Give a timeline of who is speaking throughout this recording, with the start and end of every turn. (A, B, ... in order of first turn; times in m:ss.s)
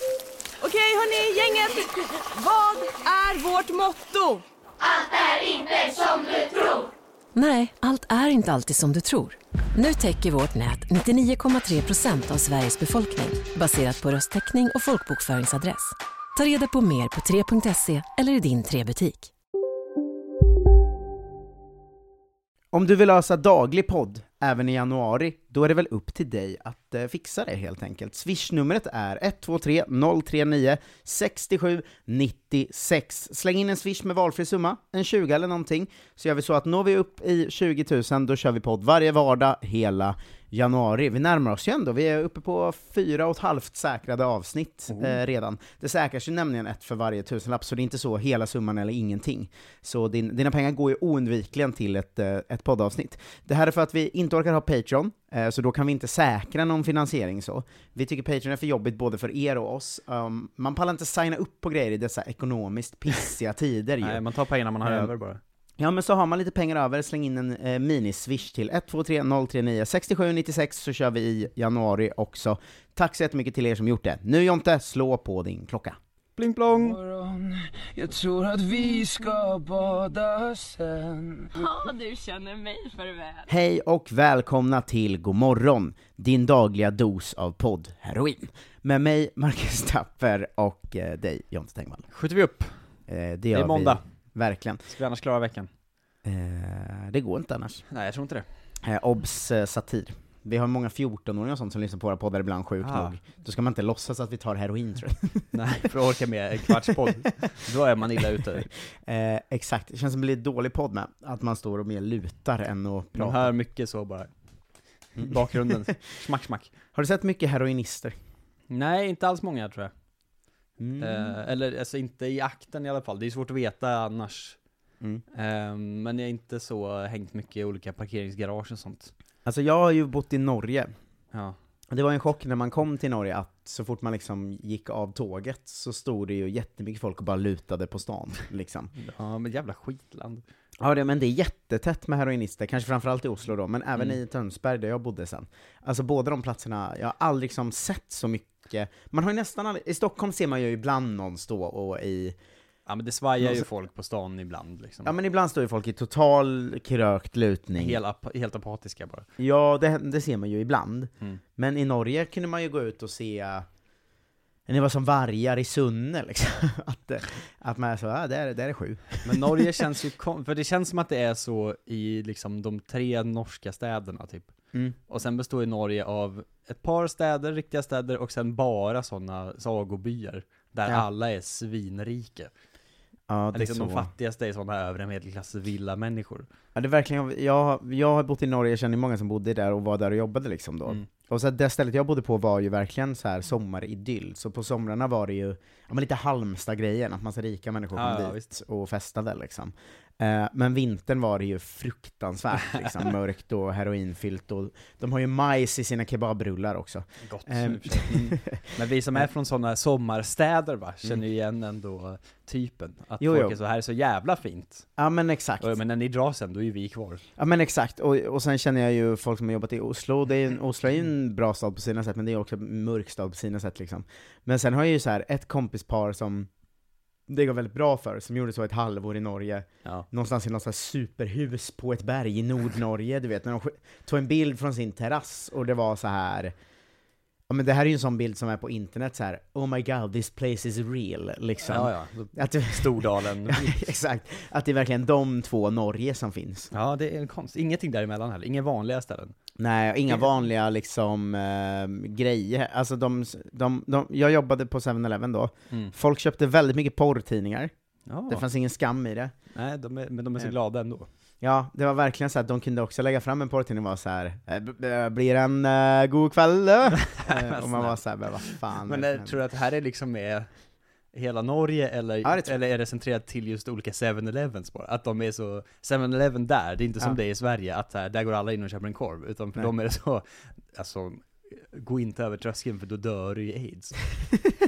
0:00.7-0:01.7 A
0:02.5-0:04.1 A
0:07.3-0:19.3 B
0:22.7-1:04.2 C
0:44.9-0:45.2 D
1:04.0-1:05.4 D
1:04.8-1:05.1 C
1:05.8-1:16.0 C
1:16.4-1:17.0 D
1:18.0-1:21.0 E
1:23.5-1:32.0 C
1:32.1-1:32.9 D
1:33.1-1:34.8 C
1:33.5-1:34.1 D
1:34.8-1:35.7 D
1:36.2-1:37.8 C
1:37.9-1:38.5 D
1:38.8-1:45.5 C
1:42.8-1:43.1 D
1:45.5-1:48.7 D
1:49.0-1:53.5 C
1:53.2-1:54.3 D
1:55.1-1:56.7 D
1:55.2-1:55.8 C
1:56.9-1:58.2 C
1:58.7-1:59.9 D
2:00.8-2:01.4 C
2:01.0-2:04.6 D
2:05.3-2:09.1 D
2:09.4-2:10.9 C
2:11.3-2:11.6 D
2:11.9-2:18.9 C
2:18.9-2:20.4 D
2:20.8-2:32.4 C
2:32.8-2:35.1 D
2:33.4-2:33.7 C
2:35.0-2:38.0 C
2:37.7-2:39.3 D
2:39.4-2:43.6 C
2:44.7-2:49.5 C
2:49.2-2:54.5 D
2:55.1-3:02.5 D
3:03.3-3:04.1 C
3:03.5-3:06.5 D
3:06.7-3:28.7 C
3:17.9-3:18.5 D
3:27.2-3:34.9 D
3:33.2-3:33.6 C
3:35.0-3:35.7 C
3:35.6-3:37.2 D
3:37.4-3:46.5 C
3:47.3-3:56.5 C
3:57.5-4:06.7 C
4:01.6-4:03.8 D
4:06.7-4:09.4 D
4:09.6-4:17.7 C
4:10.1-4:10.3 D
4:18.1-4:18.4 D
4:18.3-4:19.3 C
4:19.5-4:21.1 D
4:21.4-4:29.4 C
4:27.0-4:30.5 D
4:31.1-4:44.0 D
4:32.2-4:32.5 C